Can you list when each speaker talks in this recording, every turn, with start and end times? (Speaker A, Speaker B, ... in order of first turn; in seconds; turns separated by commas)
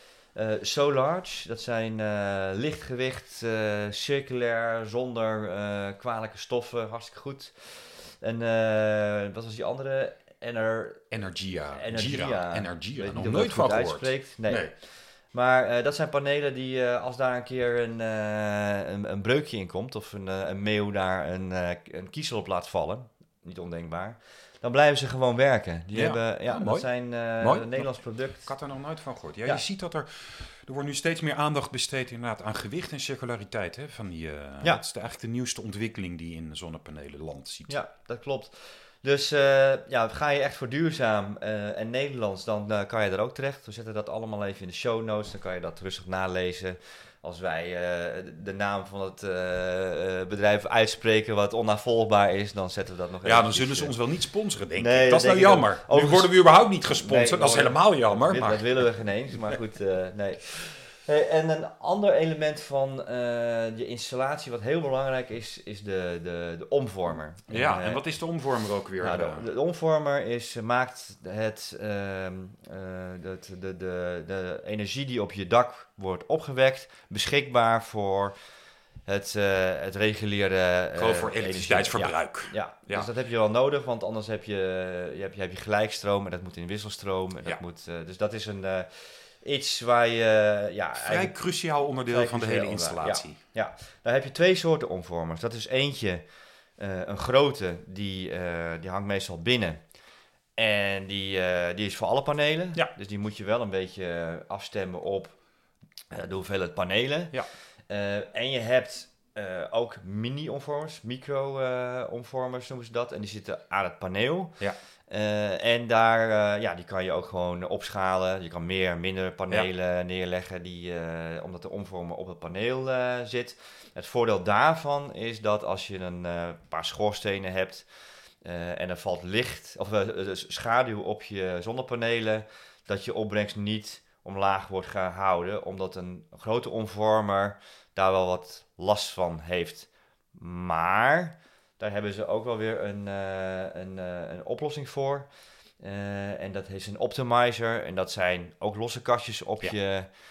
Speaker A: 0.3-11.1, Speaker B: 11.1-14.7, Speaker A: 11.7-28.5, Speaker B: 25.9-37.8, Speaker A: 37.7-54.0, Speaker B: 53.2-58.9, Speaker A: 54.8-68.0, Speaker B: 67.5-69.5, Speaker A: 69.0-78.4, Speaker A: 79.1-91.4, Speaker B: 81.0-83.1, Speaker B: 91.0-93.4, Speaker A: 92.1-96.3, Speaker A: 96.8-99.8, Speaker A: 100.6-105.3, Speaker A: 106.1-107.4, Speaker A: 107.9-114.6, Speaker A: 115.1-127.9, Speaker A: 128.4-145.3, Speaker A: 145.8-150.1